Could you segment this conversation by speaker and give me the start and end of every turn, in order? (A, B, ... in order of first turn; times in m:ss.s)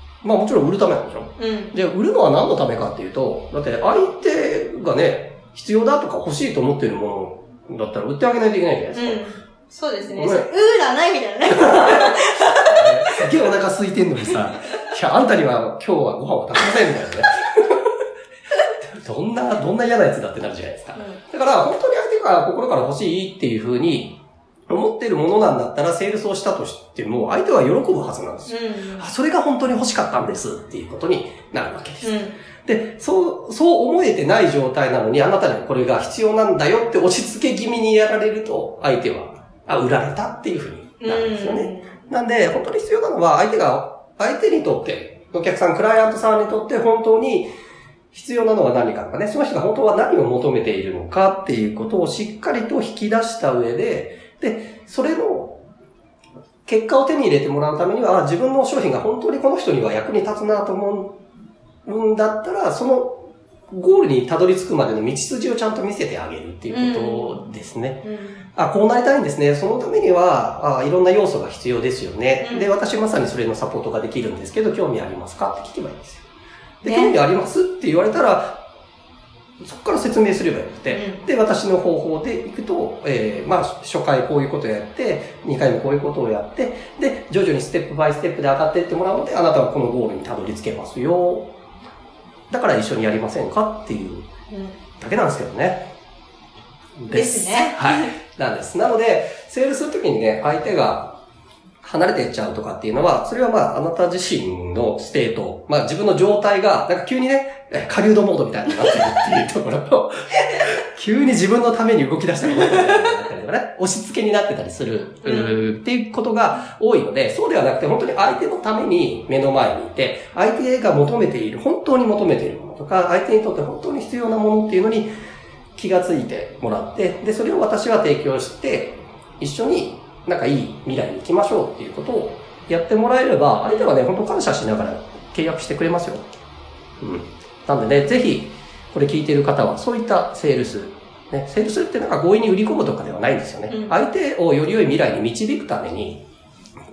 0:00.2-0:09.2 A
0:01.4-0:01.8 B
0:08.9-0:13.3 B
0:10.2-0:10.5 A
0:11.5-0:12.2 A
0:12.7-0:17.9 A
0:18.8-0:47.5 A
0:28.5-0:29.0 B
0:32.0-0:32.4 B
0:41.0-0:41.9 B
0:48.1-0:55.6 A
0:56.7-1:01.2 A
1:01.9-1:08.0 A
1:06.7-1:07.4 B
1:08.0-1:08.4 B
1:08.6-1:16.2 A
1:12.4-1:12.7 B
1:16.8-1:18.6 A
1:16.8-1:17.2 B
1:19.6-1:31.5 A
1:20.9-1:21.3 B
1:32.5-1:34.3 A
1:35.0-1:35.9 A
1:37.0-1:41.2 A
1:37.1-1:38.1 B
1:41.8-2:05.1 A
1:52.7-1:53.0 B
1:55.2-1:55.6 B
2:05.8-2:16.2 A
2:17.0-2:26.3 A
2:23.7-2:24.0 B